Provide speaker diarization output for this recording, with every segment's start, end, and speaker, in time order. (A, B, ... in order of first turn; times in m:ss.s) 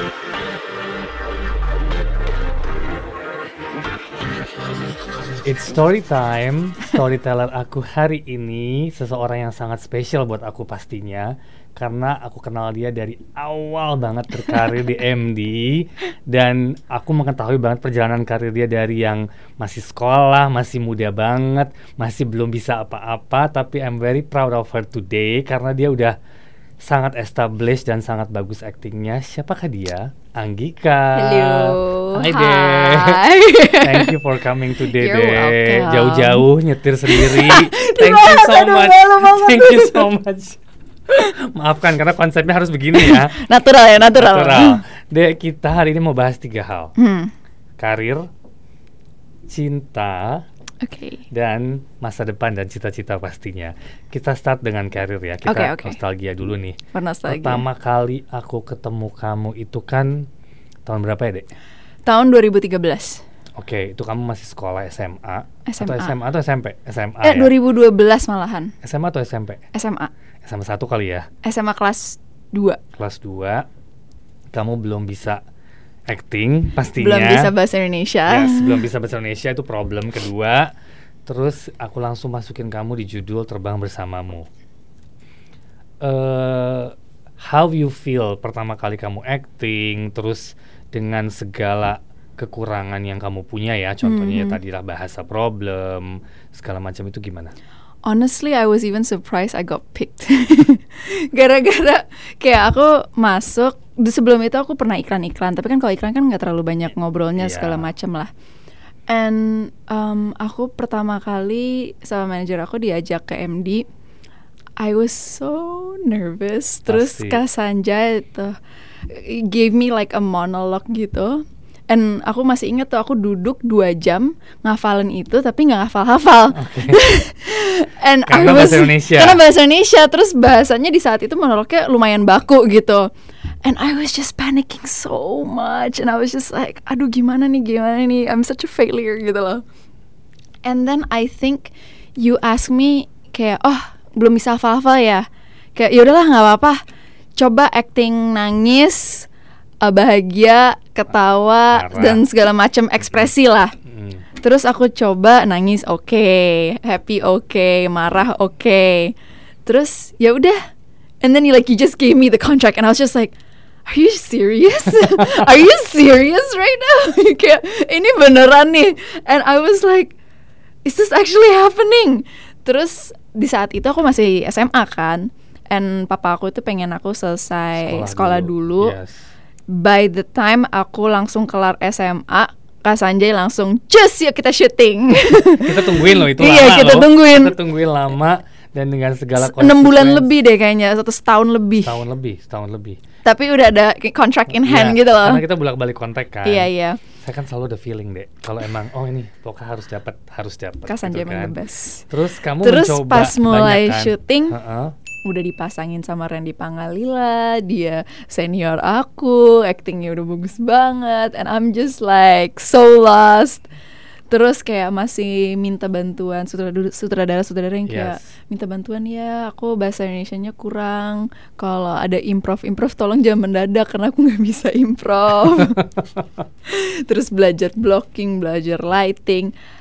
0:05.4-0:26.2 A
0:26.8-0:33.2 A
0:31.2-0:34.1 B
0:33.8-0:40.6 A
0:34.8-0:36.5 B
0:37.0-0:40.1 B
0:41.1-0:43.3 A
0:42.9-0:44.8 B
0:44.1-0:46.9 A
0:47.0-0:47.3 B
0:47.8-0:48.3 A
0:49.5-0:50.4 A
0:50.8-0:51.2 B
0:51.3-1:00.3 A
0:55.4-0:56.0 B
0:56.9-0:57.6 B
1:00.8-1:01.5 A
1:02.0-1:03.2 B
1:03.6-1:07.5 A
1:05.6-1:06.1 B
1:07.2-1:08.7 B
1:08.8-1:09.6 A
1:09.7-1:10.1 B
1:10.4-1:11.3 A
1:11.4-1:12.8 B
1:13.0-1:13.6 A
1:14.5-1:15.4 A
1:16.1-1:17.5 A
1:16.9-1:18.8 B
1:18.3-1:20.7 A
1:21.2-1:24.4 A
1:26.0-1:37.5 A
1:34.0-1:34.6 B
1:38.0-1:48.3 B
1:47.4-1:47.9 A
1:49.1-1:53.8 B
1:54.8-1:58.5 B
1:56.9-1:57.4 A
1:59.1-2:13.0 B
2:06.5-2:07.0 A
2:08.3-2:09.4 A
2:13.6-2:19.6 B
2:20.6-2:25.2 B
2:25.8-2:26.8 B
2:27.4-2:29.3 B
2:29.8-2:33.7 B
2:31.7-2:32.2 A
2:33.0-2:33.3 A
2:33.8-2:34.2 A
2:34.4-2:39.1 B
2:39.6-2:40.6 B
2:41.2-2:43.3 B
2:43.9-2:50.2 B
2:50.8-2:59.0 B
2:57.8-2:59.2 A
2:59.7-3:07.6 B
3:05.4-3:10.3 A
3:09.4-3:12.0 B
3:11.8-3:13.0 A
3:13.2-3:15.4 B
3:14.5-3:21.5 A
3:16.4-3:17.0 B
3:20.8-3:24.6 B
3:22.1-3:24.9 A
3:25.2-3:33.6 B
3:34.3-3:45.9 B
3:37.9-3:38.2 A
3:46.7-3:49.5 B